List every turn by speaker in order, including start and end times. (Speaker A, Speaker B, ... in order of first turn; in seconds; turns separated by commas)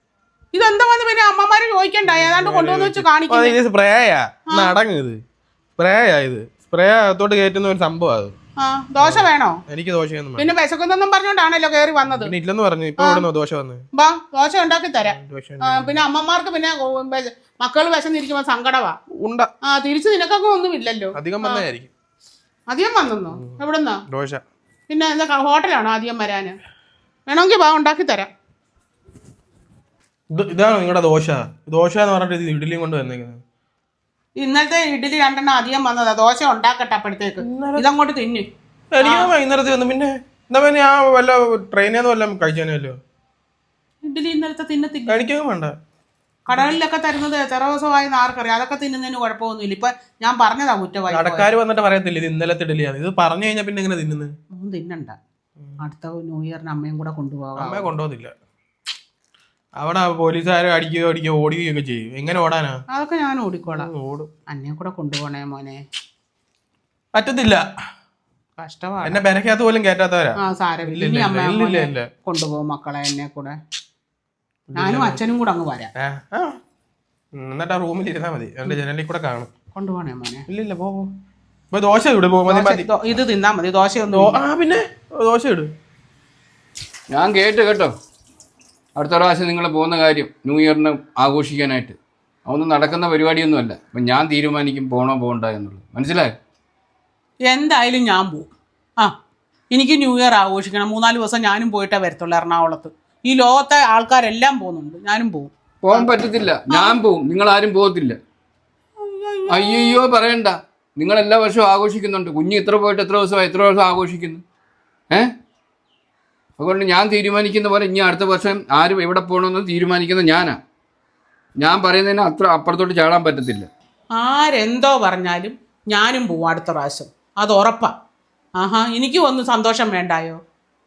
Speaker A: 0.5-3.6, Speaker B: 2.1-5.2, Speaker B: 5.8-8.3, Speaker A: 8.6-9.6, Speaker B: 9.0-10.5, Speaker A: 10.4-12.3, Speaker B: 12.1-13.8, Speaker A: 13.0-13.3, Speaker A: 13.9-19.0, Speaker B: 15.0-16.0, Speaker B: 19.2-19.5, Speaker A: 19.6-21.6, Speaker B: 21.1-21.9, Speaker A: 22.7-24.0, Speaker B: 24.1-24.4, Speaker A: 24.9-26.6, Speaker A: 27.3-28.3, Speaker B: 30.3-33.4, Speaker A: 34.4-38.5, Speaker B: 37.4-37.8, Speaker B: 38.9-43.0, Speaker A: 39.0-39.3, Speaker A: 44.0-45.2, Speaker B: 45.1-45.8, Speaker A: 46.5-51.5, Speaker B: 51.1-54.3, Speaker A: 54.5-55.2, Speaker A: 55.8-57.9, Speaker B: 57.6-58.3, Speaker B: 59.8-62.8, Speaker A: 62.9-63.9, Speaker B: 63.7-64.3, Speaker A: 64.5-65.8, Speaker B: 67.2-67.7, Speaker A: 68.6-69.2, Speaker B: 69.0-72.1, Speaker A: 70.4-73.6, Speaker B: 74.7-75.2, Speaker A: 74.8-75.9, Speaker B: 76.0-76.6, Speaker B: 77.4-79.5, Speaker A: 79.7-80.5, Speaker B: 80.5-81.1, Speaker B: 81.7-82.9, Speaker A: 82.5-84.4, Speaker B: 84.1-85.7, Speaker C: 87.1-87.9, Speaker C: 89.0-96.3, Speaker A: 97.5-98.5, Speaker A: 99.7-106.1, Speaker C: 105.8-108.2, Speaker A: 106.7-107.0, Speaker A: 109.0-110.0, Speaker C: 109.5-114.4, Speaker C: 116.6-120.6, Speaker C: 121.6-123.7, Speaker A: 124.2-127.9, Speaker A: 128.6-130.4